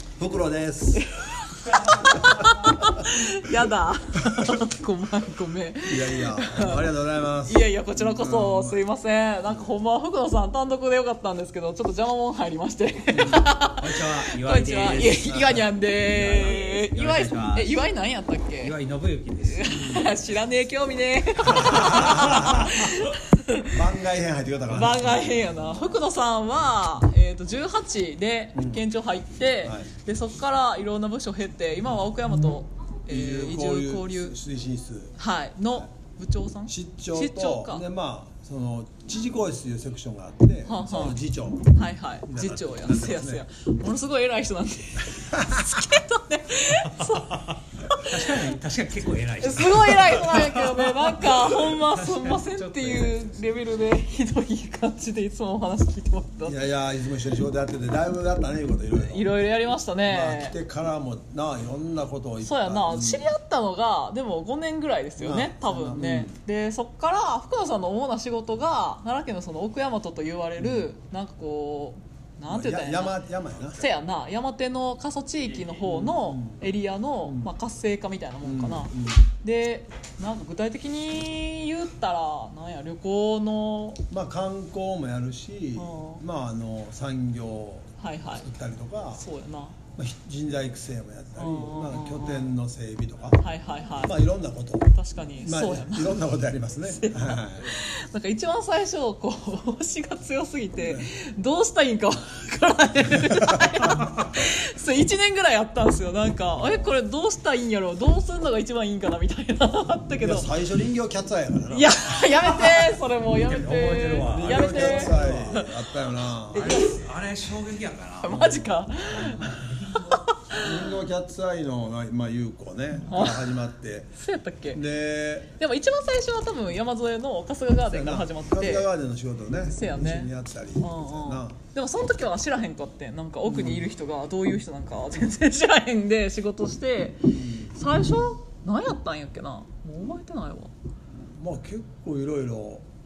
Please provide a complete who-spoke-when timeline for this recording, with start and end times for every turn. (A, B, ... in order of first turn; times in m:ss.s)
0:00.2-0:01.0 A
0:00.9-0:06.9 B
0:02.0-0:02.2 A
0:05.8-0:08.8 A
0:07.4-0:18.7 B
0:13.2-0:17.8 C
0:18.6-0:20.0 C
0:19.5-0:23.8 B
0:21.7-0:22.7 C
0:21.8-0:22.7 A
0:23.7-0:25.7 A
0:24.7-0:34.4 B
0:28.5-0:28.8 A
0:29.6-0:29.9 A
0:33.1-0:35.2 A
0:35.2-0:37.8 B
0:36.7-0:43.4 A
0:40.6-0:48.4 B
0:45.1-0:45.6 A
0:47.9-0:53.6 C
0:49.4-0:56.6 B
0:56.4-0:59.3 A
0:58.9-1:00.6 B
1:00.1-1:03.3 A
1:02.4-1:13.2 B
1:05.2-1:06.4 A
1:12.5-1:13.8 A
1:13.8-1:24.0 B
1:15.8-1:16.6 A
1:18.4-1:19.2 A
1:24.1-1:29.2 A
1:25.8-1:26.2 B
1:28.0-1:28.5 B
1:29.1-1:29.8 B
1:29.9-1:33.4 A
1:31.4-1:32.5 B
1:33.4-1:34.2 B
1:34.0-1:37.8 A
1:34.9-1:50.5 B
1:43.2-1:44.0 A
1:46.6-1:46.9 A
1:50.2-1:52.8 A
1:51.7-1:55.9 B
1:53.2-1:55.5 C
1:54.2-1:56.8 A
1:56.5-1:57.1 B
1:56.5-1:58.5 C
1:58.2-2:00.8 B
1:58.3-1:59.4 A
1:59.4-2:00.0 C
2:00.5-2:04.2 A
2:03.1-2:03.6 B
2:04.2-2:04.8 B
2:04.7-2:05.5 A
2:05.6-2:08.9 B
2:07.8-2:11.6 A
2:09.6-2:20.7 B
2:13.4-2:13.9 A
2:17.3-2:17.8 A
2:21.2-2:22.8 A